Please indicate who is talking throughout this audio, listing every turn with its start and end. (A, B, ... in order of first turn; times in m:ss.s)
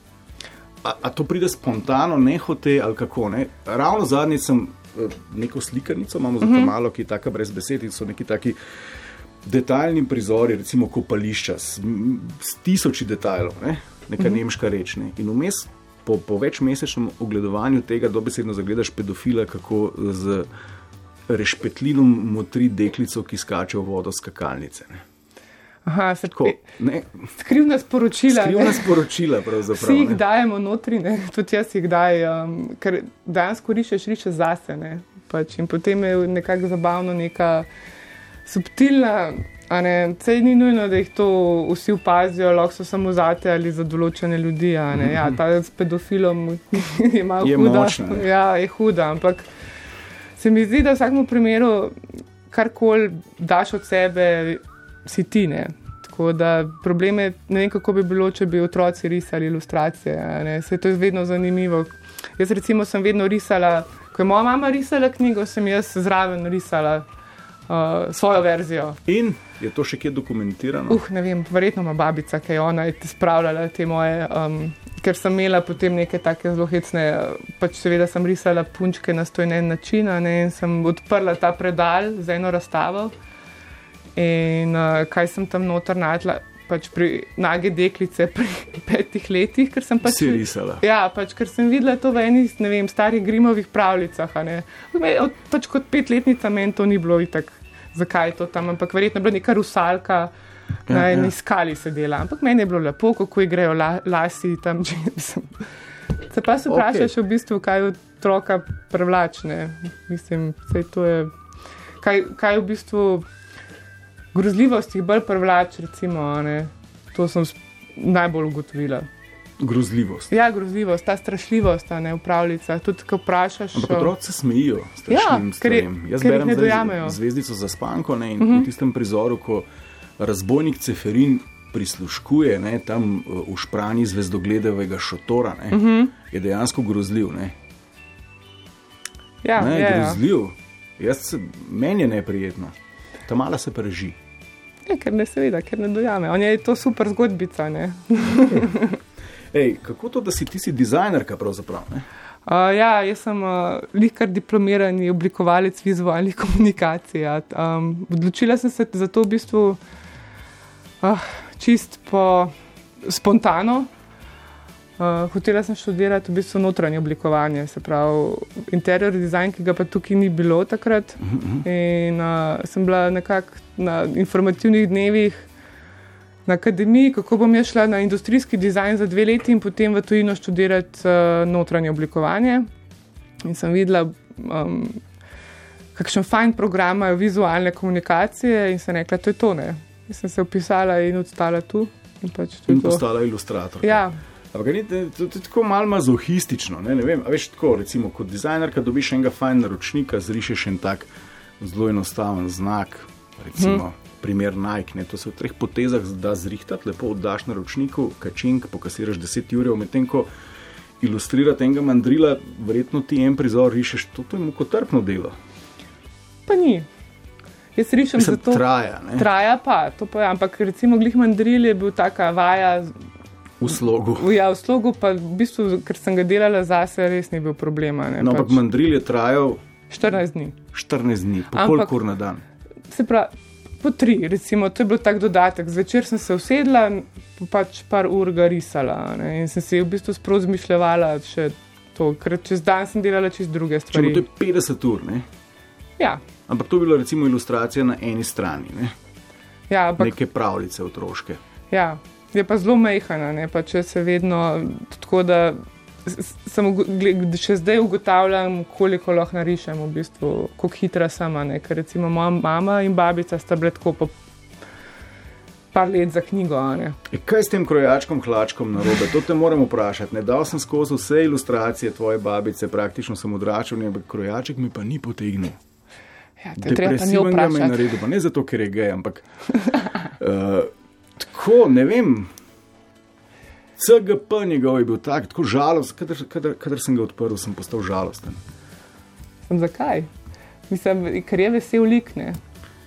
0:00.8-0:08.6 A
0:06.4-0:06.7 B
0:09.4-0:20.5 A
0:21.3-0:25.0 A
0:25.9-0:26.6 B
0:26.3-0:27.3 A
0:27.3-0:29.0 B
0:28.3-0:30.2 A
0:29.7-0:37.7 B
0:38.4-0:49.5 B
0:44.9-0:45.4 A
0:47.4-0:48.3 A
0:50.4-0:51.9 B
0:52.5-1:07.0 B
1:07.7-1:09.0 B
1:09.0-1:11.0 A
1:10.9-1:23.1 B
1:24.2-1:40.3 B
1:30.0-1:30.8 A
1:40.9-1:41.3 A
1:40.9-1:51.3 B
1:46.7-1:47.1 A
1:52.0-1:53.2 B
1:54.3-1:59.1 B
1:59.6-2:00.3 A
2:00.3-2:04.1 B
2:03.7-2:09.7 A
2:05.1-2:07.2 B
2:08.4-2:08.7 B
2:10.2-2:17.5 A
2:15.7-2:16.1 B
2:19.4-2:20.2 B
2:19.6-2:22.8 A
2:23.2-2:24.2 A
2:24.9-2:29.0 B
2:29.5-2:32.1 A
2:32.5-2:39.8 B
2:41.0-2:43.9 B
2:45.0-2:55.5 B
2:51.2-2:51.6 A
2:56.4-3:02.7 B
3:03.4-3:05.0 B
3:05.9-3:13.0 B
3:12.7-3:21.1 A
3:13.8-3:14.2 B
3:21.6-3:30.3 A
3:23.6-3:23.8 B
3:31.0-3:35.4 A
3:36.5-3:36.9 B
3:37.8-3:42.9 B
3:38.2-3:39.3 A
3:43.6-3:44.3 A
3:44.2-3:48.6 B
3:48.2-3:49.6 A
3:49.9-3:50.6 B
3:50.7-3:52.4 A
3:51.5-3:51.9 B
3:52.9-4:04.2 B
4:03.9-4:05.2 A
4:06.5-4:08.9 A
4:09.7-4:10.2 B
4:10.0-4:11.4 A
4:11.7-4:24.1 B
4:25.7-4:27.0 B
4:27.1-4:35.6 A
4:36.4-4:37.9 B
4:36.6-4:39.2 A
4:40.2-4:42.3 A
4:43.8-4:48.4 A
4:49.5-4:50.1 B
4:50.7-4:52.4 B